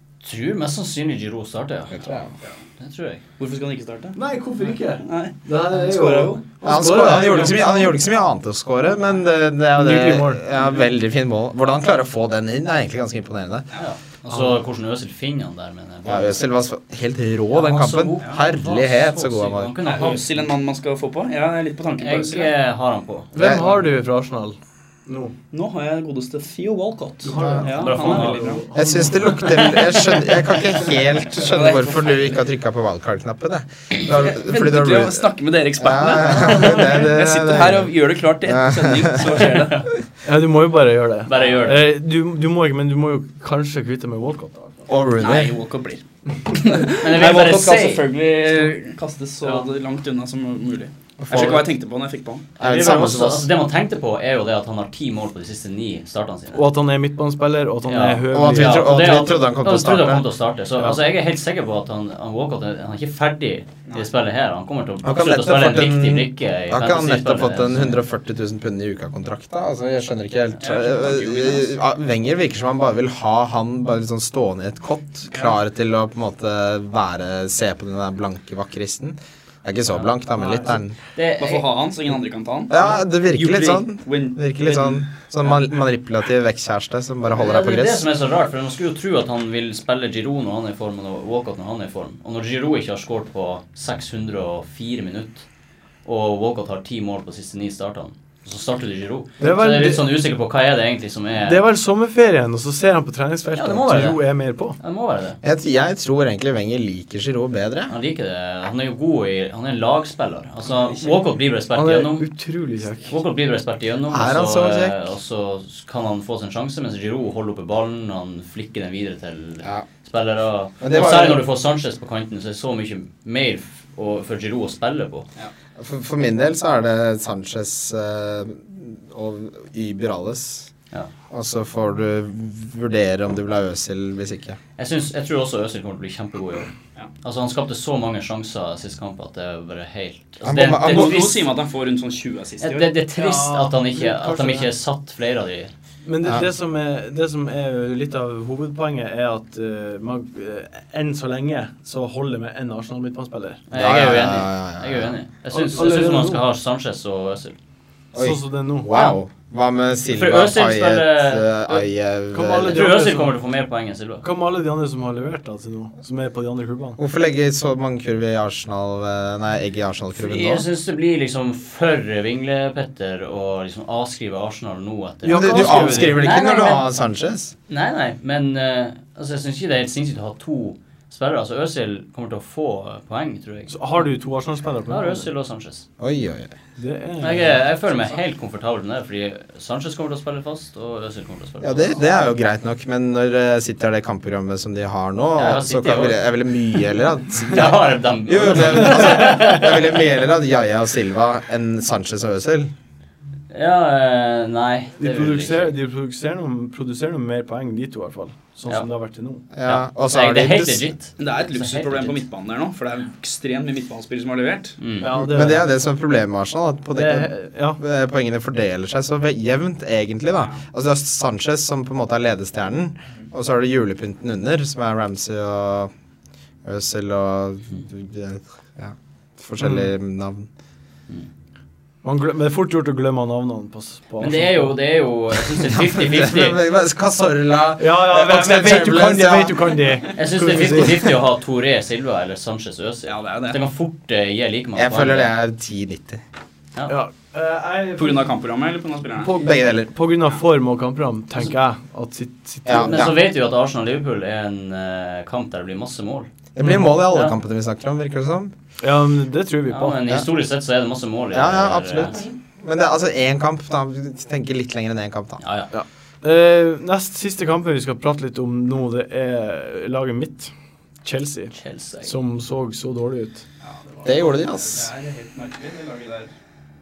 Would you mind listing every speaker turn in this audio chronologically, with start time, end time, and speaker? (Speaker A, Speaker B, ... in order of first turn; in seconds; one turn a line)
Speaker A: 0.2-2.2
Speaker B: 1.9-2.3
Speaker A: 2.8-3.2
Speaker C: 3.4-4.2
Speaker D: 4.1-8.0
Speaker C: 5.0-6.4
Speaker B: 6.6-13.7
Speaker D: 9.7-10.4
Speaker A: 13.8-16.4
Speaker B: 16.0-19.7
Speaker A: 17.5-20.4
Speaker C: 19.8-22.5
Speaker A: 22.0-23.3
Speaker D: 23.3-25.3
Speaker B: 23.4-23.6
Speaker C: 25.5-28.6
Speaker D: 27.2-29.4
Speaker B: 27.4-27.6
Speaker A: 27.7-28.5
Speaker B: 28.7-37.9
Speaker C: 29.5-30.2
Speaker C: 31.3-32.4
Speaker C: 34.1-39.9
Speaker B: 38.4-39.4
Speaker A: 39.4-39.9
Speaker D: 40.2-44.8
Speaker A: 41.2-41.9
Speaker B: 44.9-45.5
Speaker C: 45.2-52.5
Speaker A: 47.0-48.0
Speaker B: 51.2-51.7
Speaker B: 52.6-53.5
Speaker A: 52.6-56.7
Speaker D: 56.5-59.2
Speaker A: 57.9-68.0
Speaker B: 58.3-60.3
Speaker B: 65.0-81.0
Speaker C: 70.6-71.7
Speaker D: 80.4-80.7
Speaker A: 81.1-81.7
Speaker C: 81.4-85.0
Speaker B: 82.7-88.0
Speaker A: 87.3-95.4
Speaker A: 96.0-101.6
Speaker D: 99.4-100.1
Speaker D: 101.4-104.8
Speaker A: 103.5-104.2
Speaker A: 104.8-105.4
Speaker B: 105.4-107.9
Speaker A: 107.9-112.3
Speaker C: 110.7-111.2
Speaker D: 111.7-113.1
Speaker A: 113.0-125.3
Speaker B: 114.1-115.0
Speaker B: 120.8-121.4
Speaker B: 125.8-130.7
Speaker B: 131.3-134.6
Speaker A: 134.8-141.5
Speaker B: 140.4-141.3
Speaker C: 140.8-142.9
Speaker A: 142.6-145.7
Speaker D: 143.1-144.7
Speaker D: 146.0-153.6
Speaker A: 153.7-157.6
Speaker B: 153.7-155.1
Speaker D: 155.5-156.4
Speaker B: 158.1-162.9
Speaker D: 158.2-158.9
Speaker A: 158.9-159.2
Speaker A: 160.1-161.8
Speaker D: 162.3-163.4
Speaker A: 162.7-164.2
Speaker D: 164.2-167.0
Speaker B: 167.0-170.7
Speaker A: 170.1-176.8
Speaker D: 175.2-176.2
Speaker B: 175.3-177.5
Speaker A: 177.7-184.0
Speaker D: 183.7-185.3
Speaker A: 184.9-185.9
Speaker B: 186.0-186.5
Speaker D: 186.8-187.7
Speaker A: 187.2-192.0
Speaker B: 191.6-202.7
Speaker A: 195.3-196.2
Speaker A: 197.4-200.0
Speaker A: 203.5-205.7
Speaker D: 205.0-209.4
Speaker B: 209.5-210.9
Speaker A: 209.6-212.2
Speaker C: 211.2-214.8
Speaker A: 214.8-215.1
Speaker D: 215.0-215.7
Speaker B: 215.1-225.9
Speaker D: 216.9-217.8
Speaker B: 226.6-230.5
Speaker D: 229.6-229.9
Speaker D: 232.0-234.7
Speaker A: 234.2-236.6
Speaker B: 235.4-239.6
Speaker D: 237.8-241.1
Speaker A: 240.2-245.3
Speaker C: 243.1-243.6
Speaker B: 244.8-246.2
Speaker D: 246.9-248.3
Speaker C: 248.0-249.3
Speaker D: 249.2-253.0
Speaker B: 249.4-249.9
Speaker B: 252.6-253.2
Speaker A: 252.7-256.3
Speaker B: 256.5-258.5
Speaker D: 256.6-256.9
Speaker A: 257.0-257.4
Speaker D: 258.8-260.0
Speaker A: 259.7-262.3
Speaker B: 261.3-265.4
Speaker A: 265.4-265.7
Speaker D: 265.7-270.5
Speaker D: 271.0-273.4
Speaker A: 271.5-272.1
Speaker C: 273.6-276.3
Speaker B: 274.0-274.9